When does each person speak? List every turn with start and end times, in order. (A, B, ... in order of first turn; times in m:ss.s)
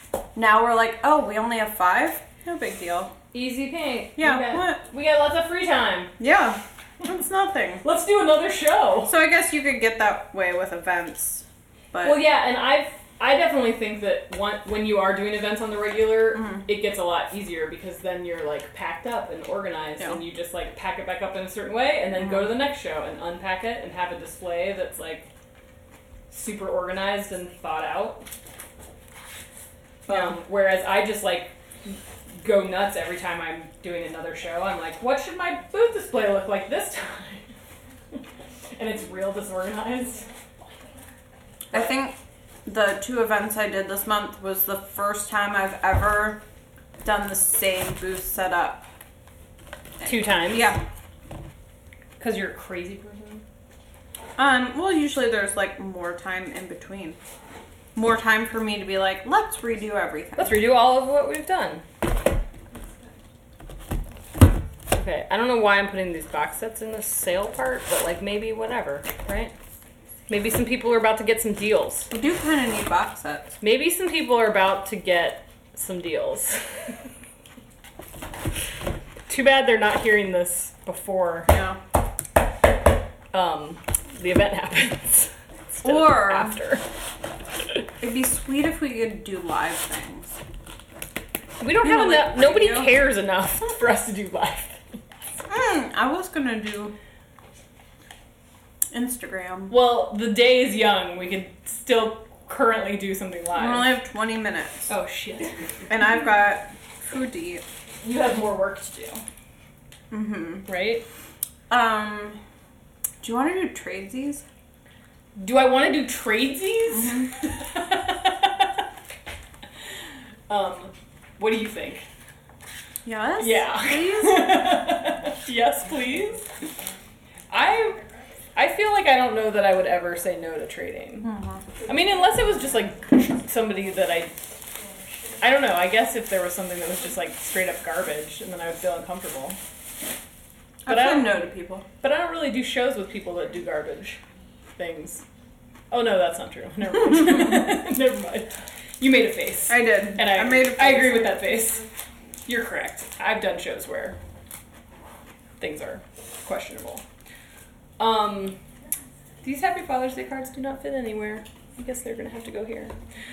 0:00.4-0:03.1 A
0:03.3-0:06.1 B
0:04.2-0:04.8 A
0:06.2-0:07.8 A
0:07.8-0:09.1 B
0:09.1-0:12.2 A
0:12.0-0:25.3 B
0:16.4-0:16.6 A
0:22.2-0:22.5 A
0:26.3-0:28.3 B
0:30.1-0:37.5 B
0:30.1-0:30.3 A
0:38.8-0:40.3 B
0:41.7-0:46.4 A
0:47.0-0:48.9 A
0:50.0-0:50.8 A
0:50.0-0:50.8 B
0:52.2-0:53.4 B
0:54.4-0:57.2 A
0:58.0-1:00.6 A
1:00.4-1:01.8 B
1:04.9-1:09.5 B
1:10.3-1:12.1 B
1:12.1-1:13.6 A
1:13.6-1:16.6 B
1:19.3-1:21.5 B
1:21.5-1:21.8 A
1:23.3-1:26.8 B
1:25.8-1:26.6 A
1:28.0-1:30.4 A
1:31.6-1:34.8 B
1:31.8-1:32.9 A
1:35.5-1:37.0 A
1:38.9-1:39.8 A
1:39.7-1:44.0 B
1:43.6-1:44.9 A
1:44.9-1:45.6 B
1:45.9-1:47.6 A
1:48.0-1:49.2 B
1:50.1-1:50.7 A
1:50.7-1:51.0 B
1:51.7-1:52.4 A
1:53.2-1:54.4 A
1:55.4-1:58.7 B
2:00.5-2:02.0 B
2:03.0-2:04.8 A
2:03.4-2:06.5 B
2:07.5-2:08.0 B
2:08.5-2:11.3 B
2:11.2-2:11.6 A
2:11.8-2:14.3 B
2:15.4-2:19.6 B
2:20.8-2:21.8 A
2:20.9-2:21.5 B
2:22.0-2:24.2 B
2:24.8-2:25.2 B
2:25.9-2:31.9 B
2:29.7-2:31.5 A
2:32.5-2:34.2 B
2:35.6-2:37.0 B
2:38.0-2:38.6 B
2:39.4-2:43.0 B